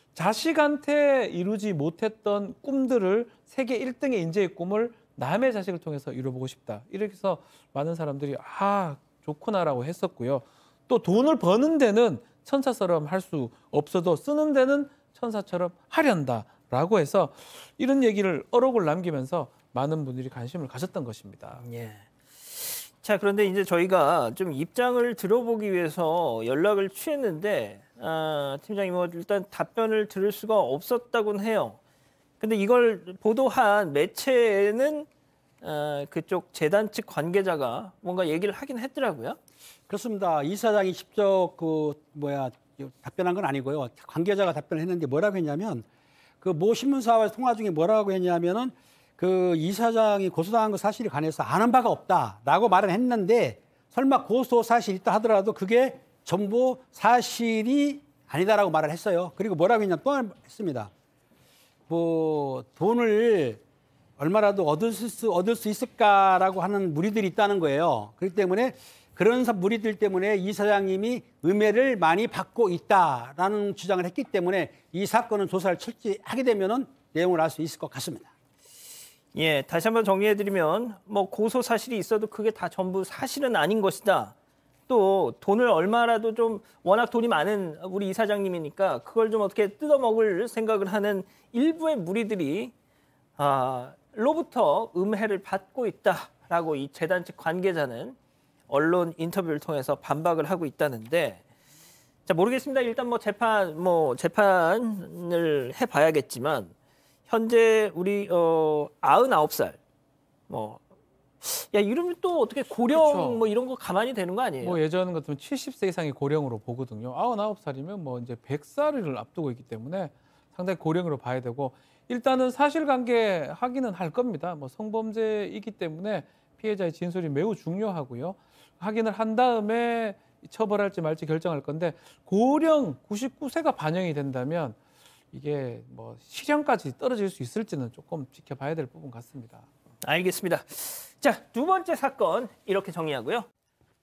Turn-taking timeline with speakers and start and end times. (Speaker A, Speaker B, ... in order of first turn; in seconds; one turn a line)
Speaker A: 0.1-21.6
Speaker B: 21.6-31.8
Speaker B: 32.4-35.1
Speaker B: 35.6-39.4
Speaker C: 39.9-45.8
Speaker C: 46.4-60.9
Speaker C: 61.9-63.6
Speaker C: 64.2-78.3
Speaker B: 79.3-84.3
Speaker B: 84.9-92.7
Speaker B: 93.4-98.2
Speaker B: 98.7-101.4
Speaker B: 102.2-106.7
Speaker B: 107.3-109.8
Speaker B: 110.5-110.8
Speaker B: 111.4-114.8
Speaker A: 112.9-113.4
Speaker A: 114.6-134.8
Speaker A: 135.3-139.7
Speaker B: 140.0-143.5